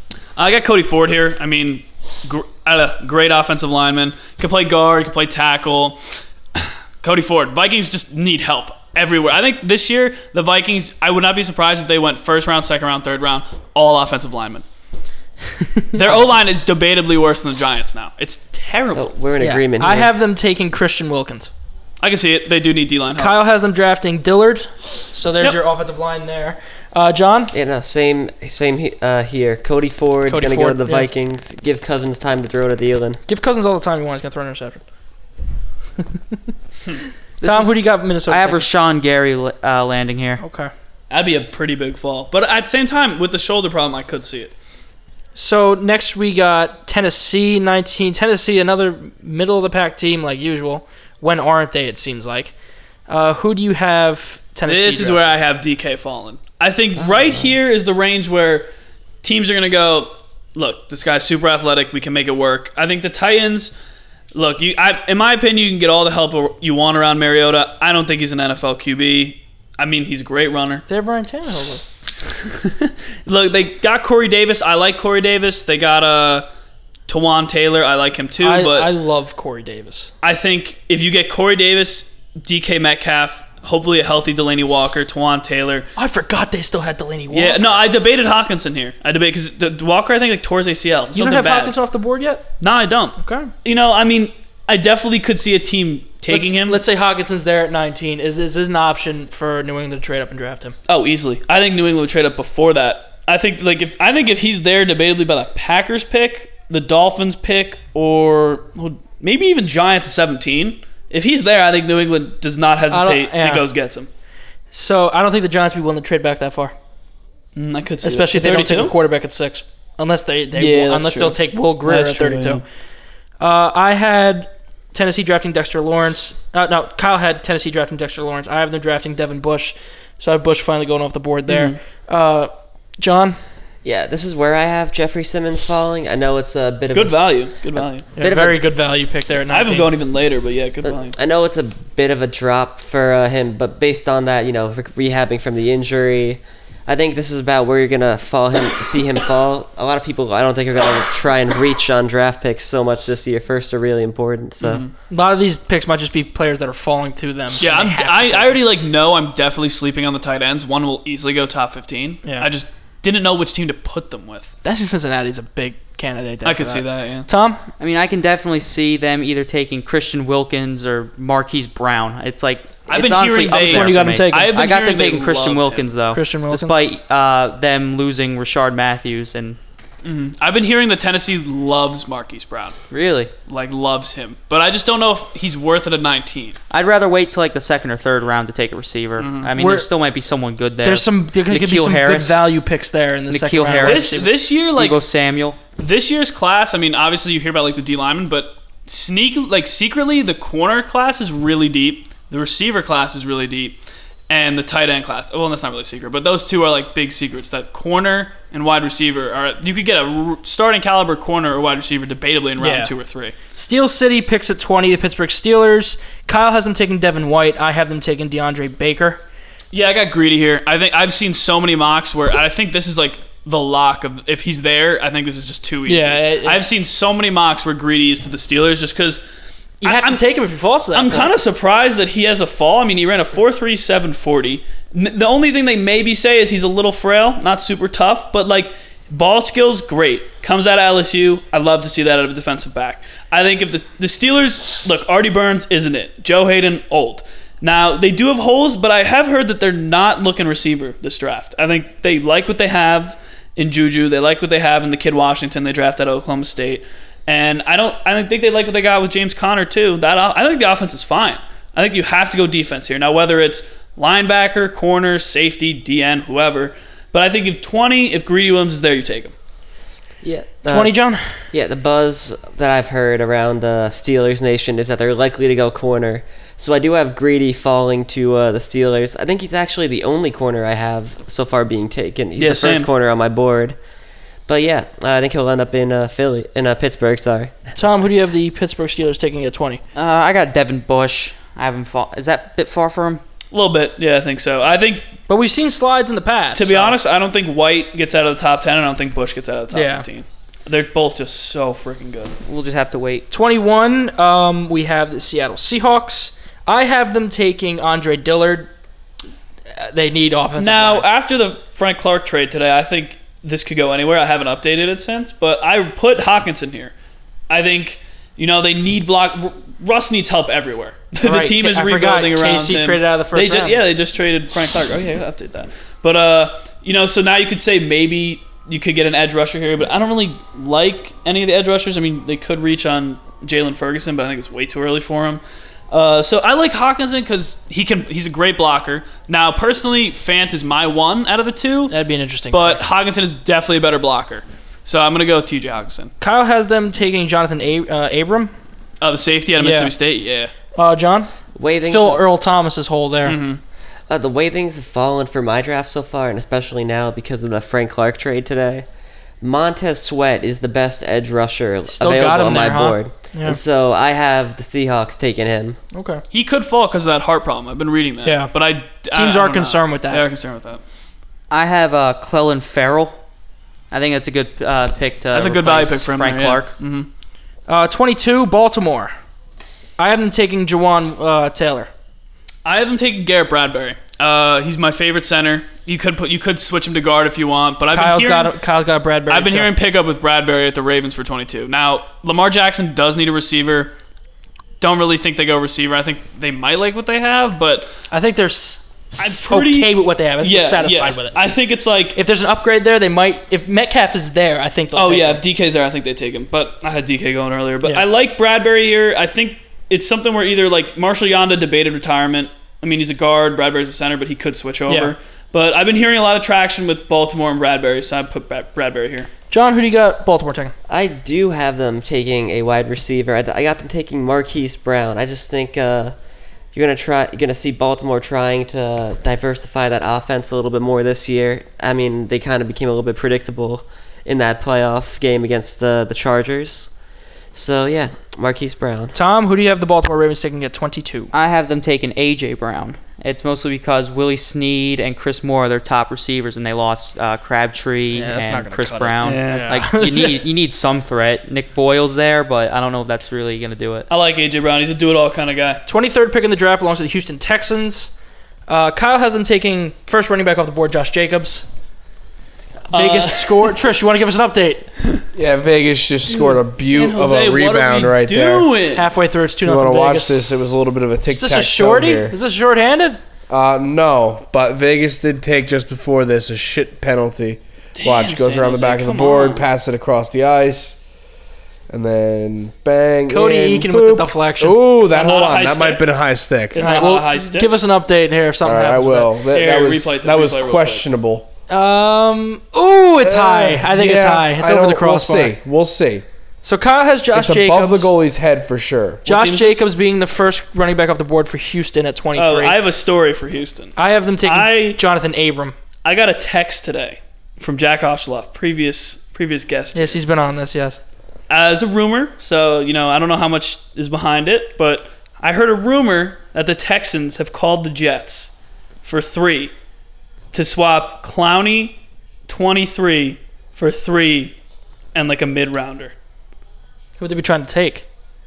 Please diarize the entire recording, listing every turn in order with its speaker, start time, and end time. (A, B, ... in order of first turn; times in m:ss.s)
0:00.4-0:14.6 A
0:15.9-0:19.1 A
0:18.9-0:20.1 B
0:19.4-0:21.5 C
0:22.0-0:23.4 A
0:23.2-0:27.5 C
0:27.5-0:33.2 B
0:30.3-0:31.1 C
0:33.3-0:34.8 C
0:37.4-0:38.7 C
0:37.4-0:40.4 D
0:40.4-0:40.7 C
0:41.1-0:44.5 A
0:45.3-0:52.5 C
0:53.1-0:55.3 C
0:54.7-0:58.7 A
0:57.0-0:57.5 B
0:59.2-1:03.7 A
1:04.3-1:10.8 A
1:10.9-1:11.8 C
1:12.4-1:16.5 A
1:17.1-1:18.9 A
1:18.4-1:20.1 C
1:20.2-1:25.9 A
1:26.0-1:27.8 C
1:27.3-1:31.8 A
1:31.1-1:32.5 C
1:32.6-1:36.8 A
1:33.2-1:33.5 C
1:36.3-1:40.7 C
1:40.9-1:54.1 A
1:52.9-1:53.6 C
1:54.7-1:56.7 C
1:57.6-1:58.9 A
1:58.0-2:02.6 C
2:00.6-2:02.6 A
2:03.4-2:13.4 C
2:11.5-2:11.8 A
2:13.8-2:18.6 B
2:16.9-2:18.1 A
2:18.2-2:19.9 C
2:19.5-2:21.1 A
2:20.8-2:34.8 B
2:34.6-2:34.9 A
2:35.1-2:38.6 C
2:37.6-2:44.5 A
2:42.2-2:42.5 C
2:44.6-2:47.6 C
2:46.4-2:47.3 A
2:47.8-2:59.6 D
2:52.9-2:55.9 A
2:53.5-2:54.6 C
2:56.1-2:56.8 C
3:00.0-3:02.8 A
3:02.9-3:03.3 D
3:03.5-3:06.6 A
3:06.7-3:12.4 D
3:09.2-3:09.5 A
3:09.6-3:09.9 C
3:10.8-3:14.3 C
3:13.3-3:15.6 D
3:13.8-3:15.0 A
3:15.8-3:33.3 A
3:32.6-3:32.9 C
3:33.5-3:39.2 C
3:39.7-3:49.2 A
3:45.9-3:46.6 C
3:49.8-3:51.3 C
3:49.8-3:50.2 A
3:50.9-4:29.3 A
4:30.2-4:31.0 B
4:30.6-4:31.4 C
4:31.5-4:43.8 B
4:42.4-4:42.9 A
4:44.5-4:47.6 B
4:47.8-4:49.8 C
4:49.9-4:53.2 D
4:53.5-4:55.1 A
4:55.3-4:57.0 C
4:56.5-5:02.3 A
4:59.7-5:00.0 C
5:02.4-5:03.3 D
5:03.3-5:08.7 C
5:09.7-5:11.0 C
5:10.6-5:16.9 A
5:17.5-5:41.9 A
5:21.2-5:23.8 C
5:41.9-5:42.8 C
5:42.5-5:46.1 A
5:46.2-5:48.5 C
5:49.0-5:50.5 A
5:49.6-5:49.9 C
5:50.7-5:51.3 C
5:51.6-5:52.2 B
5:51.8-5:53.4 C
5:53.2-5:53.6 A
5:54.1-5:58.8 B
5:59.4-6:05.8 B
6:01.9-6:03.6 C
6:05.9-6:06.2 C
6:06.3-6:10.8 A
6:08.2-6:08.5 C
6:09.1-6:10.2 C
6:11.5-6:13.2 D
6:13.9-6:16.7 D
6:15.3-6:17.1 A
6:17.7-6:19.1 C
6:20.0-6:21.9 C
6:22.6-6:28.5 A
6:27.9-6:29.7 C
6:29.3-6:33.9 A
6:34.8-6:37.9 A
6:38.1-6:41.5 C
6:39.2-6:42.2 A
6:42.1-6:45.4 C
6:44.9-6:59.3 A
6:54.9-6:55.1 C
6:59.5-7:00.7 C
7:00.9-7:06.2 B
7:06.7-7:16.9 B
7:17.5-7:19.1 B
7:19.1-7:21.3 C
7:21.3-7:34.1 D
7:28.1-7:30.4 C
7:29.2-7:29.8 A
7:34.1-7:35.8 A
7:35.9-7:38.1 C
7:38.7-7:41.6 C
7:42.9-7:44.9 C
7:42.9-7:43.8 A
7:45.3-7:48.7 E
7:46.8-7:49.1 A
7:48.9-7:50.3 C
7:49.6-7:52.4 E
7:51.3-7:53.2 C
7:53.5-8:01.0 E
7:58.0-7:59.7 A
8:01.9-8:06.8 E
8:03.3-8:04.8 C
8:05.1-8:06.0 A
8:06.7-8:07.8 A
8:06.8-8:09.3 C
8:08.6-8:11.5 E
8:09.5-8:11.0 A
8:11.7-8:15.5 C
8:13.2-8:16.2 E
8:16.6-8:18.1 C
8:17.3-8:19.2 E
8:19.2-8:19.8 A
8:19.2-8:22.8 C
8:22.4-8:25.0 A
8:24.0-8:25.7 C
8:26.0-8:30.2 A
8:29.9-8:31.0 C
8:31.5-8:38.5 A
8:39.0-8:39.7 A
8:40.5-8:44.5 A
8:45.1-8:46.1 A
8:47.2-8:48.0 C